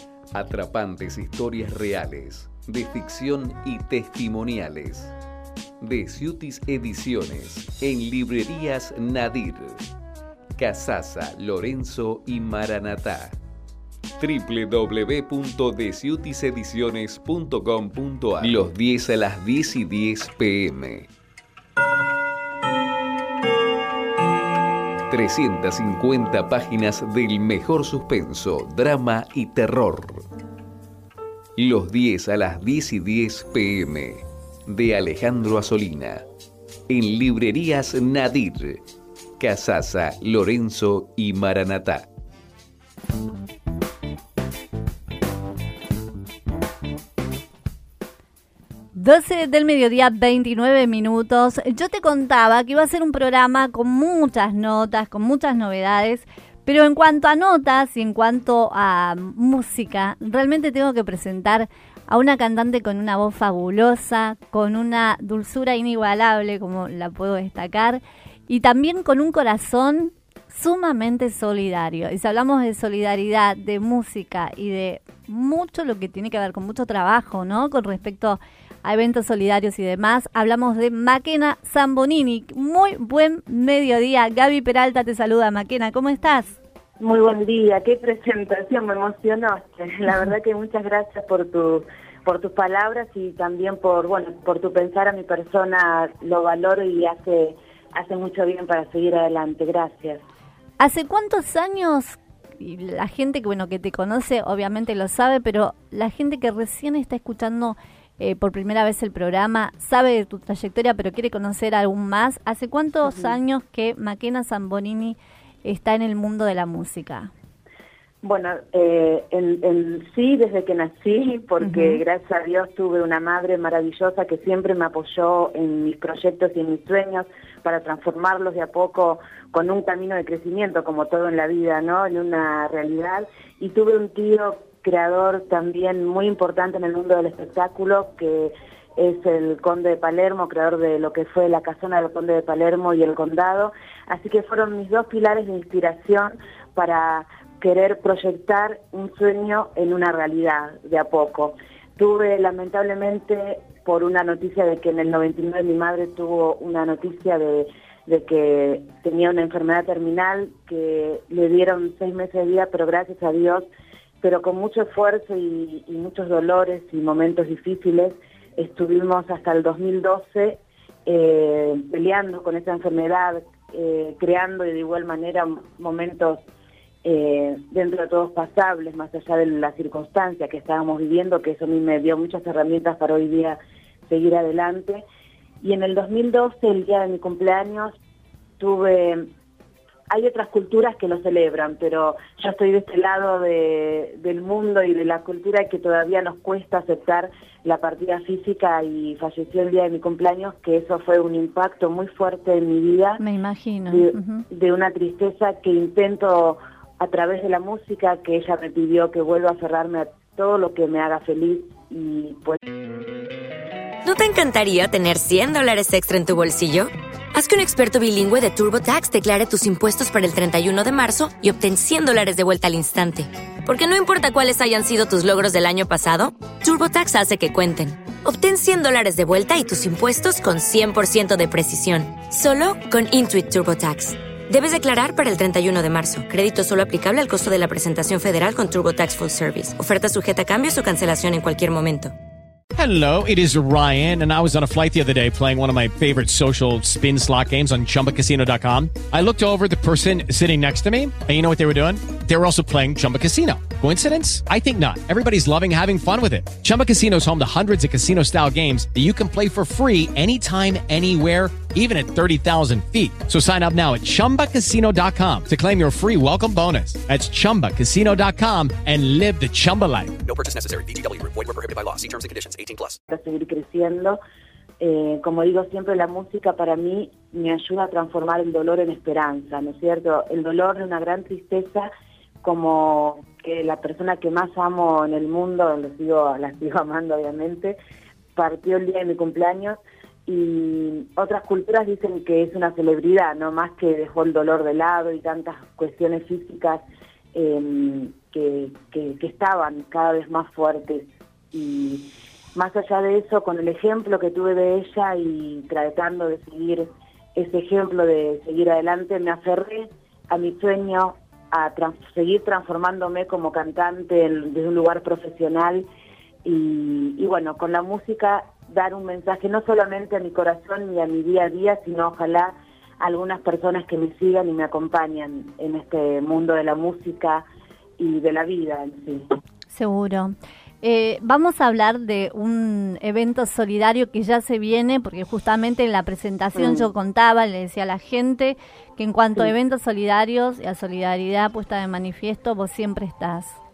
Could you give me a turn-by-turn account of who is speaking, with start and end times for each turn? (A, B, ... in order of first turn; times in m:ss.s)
0:00.3-0:05.1 A
0:05.8-0:09.8 A
0:10.6-0:13.4 A
0:14.2-0:21.1 A
0:25.1-0:30.2 A
0:31.6-0:36.2 A
0:36.9-0:38.8 A
0:39.4-0:42.0 A
0:48.9-1:26.6 B
1:27.0-1:40.2 C
1:40.8-1:57.3 B
1:53.0-1:53.4 C
1:58.2-2:43.7 C
2:01.6-2:02.0 B
2:44.2-2:56.4 C
2:57.0-3:05.0 C
3:05.6-3:08.0 C
3:08.6-3:09.3 C
3:10.1-3:23.2 C
3:23.2-3:24.4 B
3:23.9-3:32.6 C
3:34.0-4:02.1 D
4:02.8-4:30.1 E
4:30.2-4:33.0 F
4:33.1-4:34.2 C
4:34.8-4:41.9 C
4:42.4-4:47.8 C
4:48.4-5:15.9 C
5:16.4-5:27.4 C
5:28.0-5:29.3 C
5:29.7-5:43.6 B
5:36.6-5:36.9 C